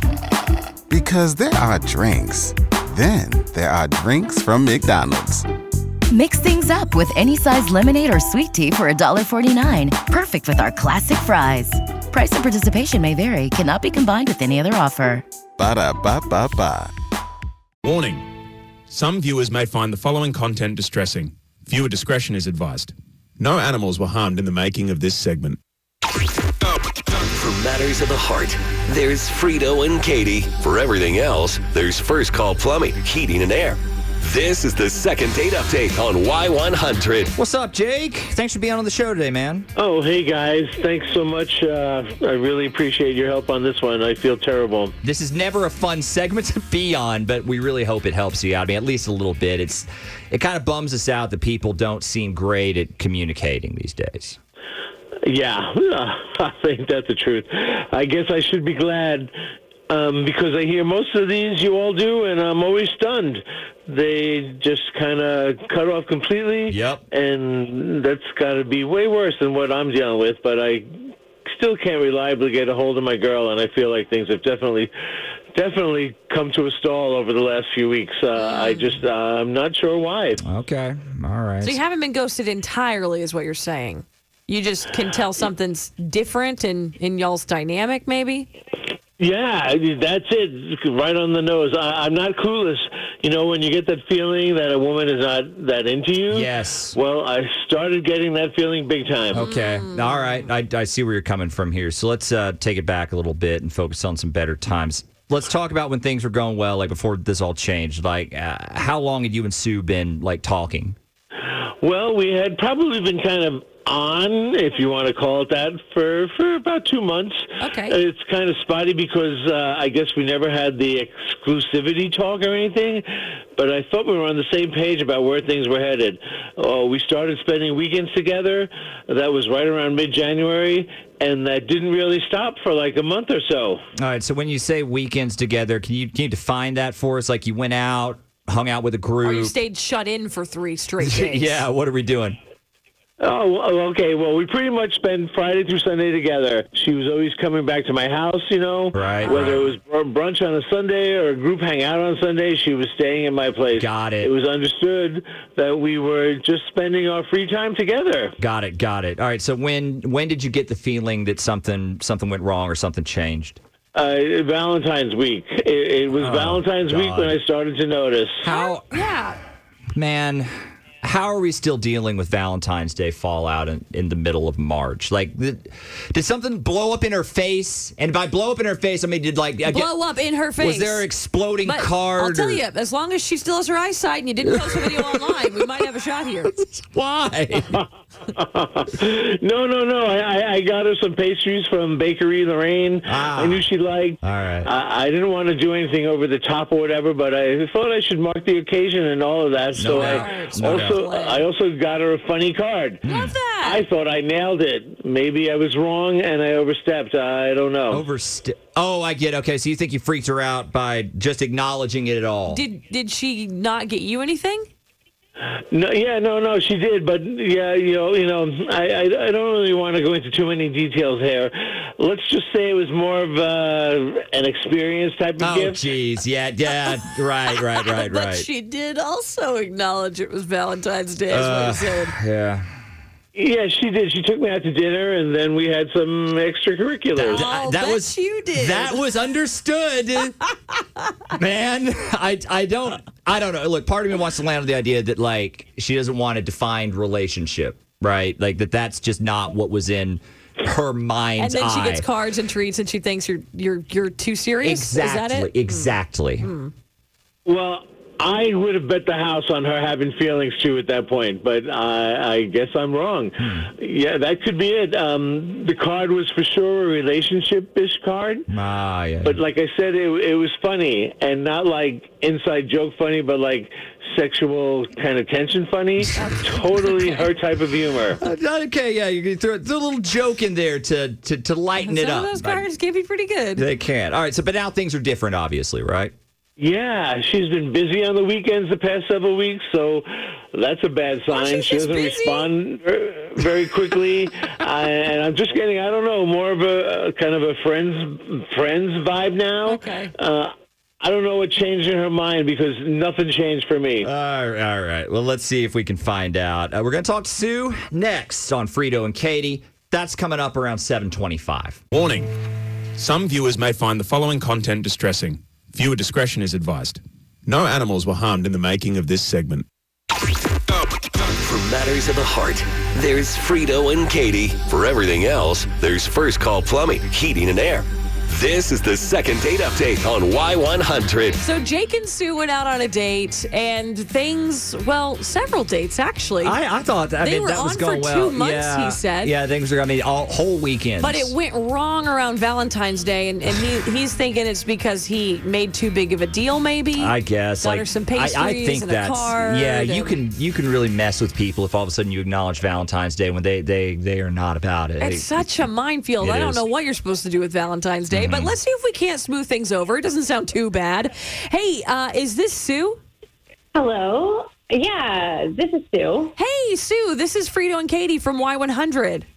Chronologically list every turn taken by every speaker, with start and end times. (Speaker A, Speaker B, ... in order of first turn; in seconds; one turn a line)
Speaker A: 0.9-5.4
Speaker B: 6.1-15.2
Speaker A: 15.6-16.9
Speaker C: 17.8-18.3
Speaker C: 18.9-25.6
Speaker D: 26.7-37.3
Speaker E: 37.3-39.7
Speaker F: 39.8-44.9
Speaker E: 45.0-54.4
Speaker F: 55.2-59.3
Speaker F: 59.9-74.9
Speaker E: 66.7-67.0
Speaker F: 75.5-80.4
Speaker G: 78.3-79.0
Speaker E: 80.4-81.8
Speaker G: 81.6-88.5
Speaker F: 89.2-99.4
Speaker E: 96.3-97.0
Speaker E: 99.3-111.0
Speaker G: 99.3-100.4
Speaker F: 111.5-123.0
Speaker G: 117.6-118.0
Speaker F: 123.5-133.8
Speaker E: 134.0-139.6
Speaker G: 139.2-141.7
Speaker E: 141.0-142.4
Speaker F: 143.2-158.4
Speaker E: 148.9-149.6
Speaker G: 149.3-149.5
Speaker E: 153.7-154.3
Speaker E: 158.4-163.6
Speaker F: 163.9-168.4
Speaker E: 166.1-167.4
Speaker E: 168.4-169.0
Speaker G: 168.5-169.4
Speaker E: 170.0-170.5
Speaker E: 171.0-180.0
Speaker G: 179.7-181.1
Speaker E: 180.6-182.6
Speaker G: 181.6-186.5
Speaker E: 186.6-187.7
Speaker F: 188.4-203.1
Speaker E: 193.1-193.7
Speaker E: 194.2-194.7
Speaker E: 199.7-201.0
Speaker G: 199.8-201.5
Speaker G: 203.0-203.8
Speaker E: 203.1-203.3
Speaker F: 203.6-208.0
Speaker E: 207.9-212.6
Speaker G: 212.5-214.7
Speaker F: 215.7-225.8
Speaker E: 225.4-228.5
Speaker G: 226.8-232.2
Speaker E: 231.3-232.7
Speaker F: 233.3-237.4
Speaker E: 237.2-240.5
Speaker G: 237.3-239.1
Speaker E: 241.3-252.1
Speaker G: 251.4-256.7
Speaker E: 254.6-256.5
Speaker F: 257.4-268.4
Speaker E: 263.4-263.7
Speaker E: 268.5-269.4
Speaker F: 269.2-278.2
Speaker E: 278.2-282.7
Speaker G: 281.8-283.7
Speaker E: 283.6-286.1
Speaker F: 286.6-304.1
Speaker G: 291.3-292.5
Speaker G: 299.6-300.1
Speaker E: 304.0-311.8
Speaker C: 311.9-312.3
Speaker C: 313.0-319.7
Speaker D: 320.7-331.4
Speaker G: 331.4-336.6
Speaker E: 336.4-341.4
Speaker G: 337.2-339.4
Speaker G: 341.0-350.2
Speaker E: 346.9-355.7
Speaker G: 355.0-363.0
Speaker E: 356.2-356.6
Speaker E: 358.1-358.6
Speaker H: 363.8-366.4
Speaker G: 366.4-369.2